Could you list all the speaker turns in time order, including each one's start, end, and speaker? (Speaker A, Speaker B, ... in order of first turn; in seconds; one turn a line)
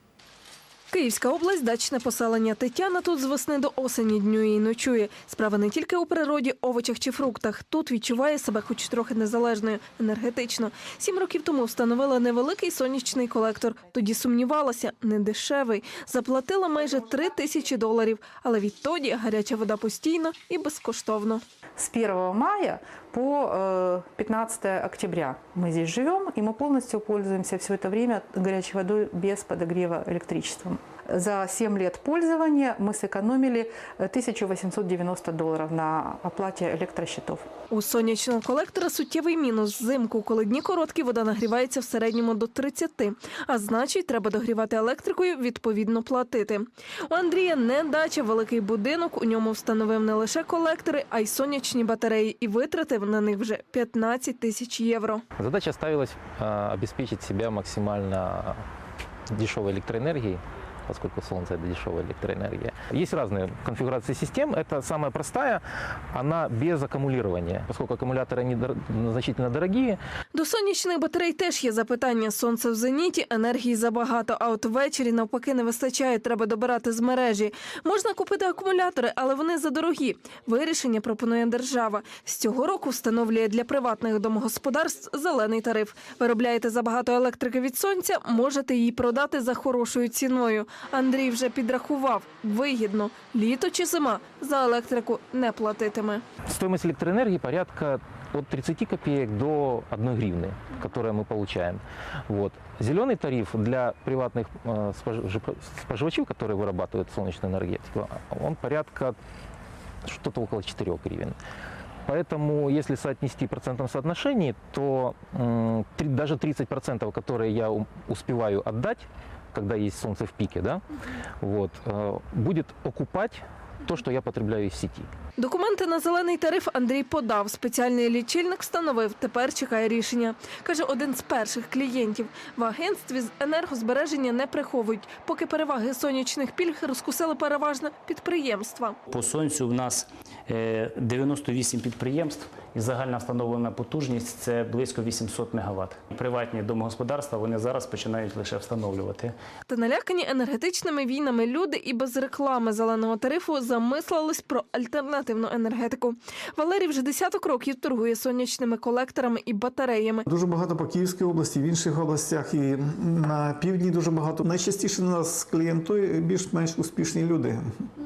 Speaker A: 0.9-21.4
Speaker B: 21.8-37.5
Speaker A: 37.7-55.2
Speaker C: 55.4-58.6
Speaker C: 59.3-70.0
Speaker A: 70.3-96.2
Speaker C: 96.5-109.2
Speaker C: 110.0-111.3
Speaker C: 112.0-120.8
Speaker C: 121.4-125.1
Speaker A: 125.4-139.0
Speaker D: 139.1-149.3
Speaker A: 149.7-160.2
Speaker E: 160.3-167.6